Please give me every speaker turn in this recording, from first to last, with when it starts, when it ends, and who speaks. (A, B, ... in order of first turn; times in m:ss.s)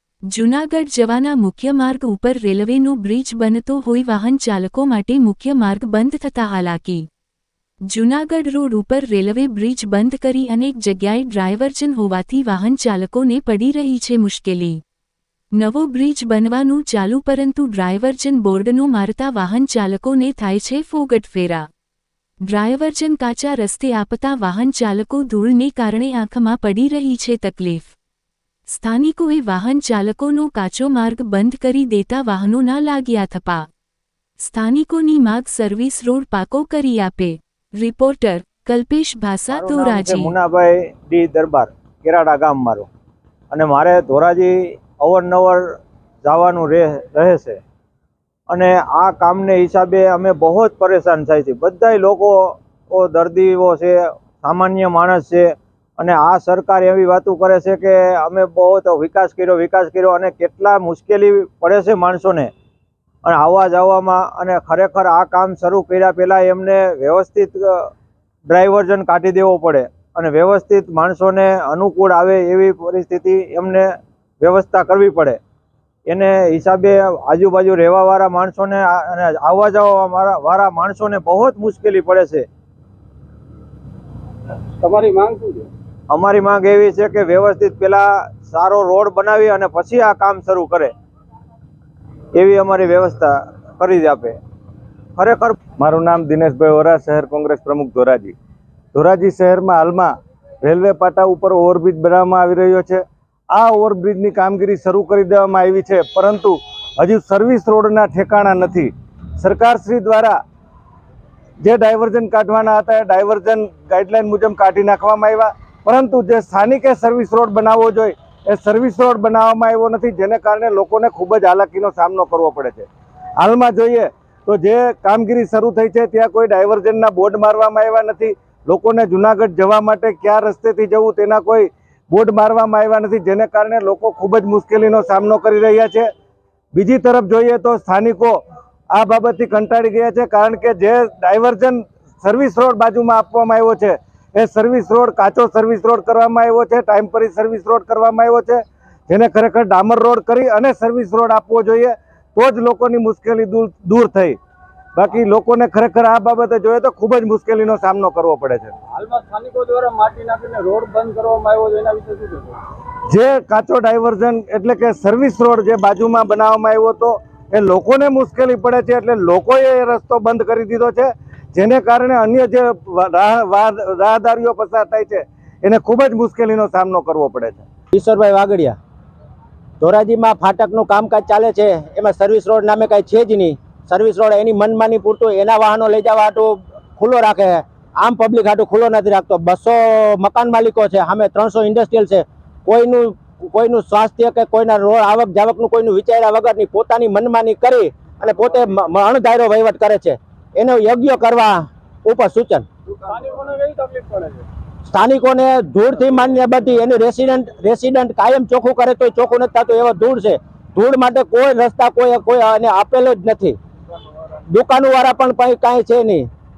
0:00.3-0:07.0 A
0:07.9-0:14.8 A
0:15.6-0:21.6 A
0:22.5-0:27.9 A
0:28.7-0:33.7 A
0:34.4-0:40.3 A
0:39.5-0:42.9 B
0:43.5-0:47.6 B
0:48.5-1:02.5 B
1:03.2-1:07.9 B
1:08.5-1:15.4 B
1:16.1-1:22.5 B
1:24.8-1:25.7 C
1:26.1-1:30.9 B
1:32.4-1:34.4 B
1:35.2-1:35.6 B
1:35.8-1:38.4 D
1:38.9-1:50.4 D
1:51.6-2:02.9 D
2:03.4-2:16.1 D
2:16.7-2:18.4 D
2:18.9-2:34.4 D
2:35.0-2:38.8 D
2:39.0-2:42.6 C
2:43.1-2:57.6 D
2:57.9-2:58.8 E
2:59.8-3:22.7 E
3:23.0-3:24.5 C
3:24.9-3:33.6 E
3:34.5-3:36.3 E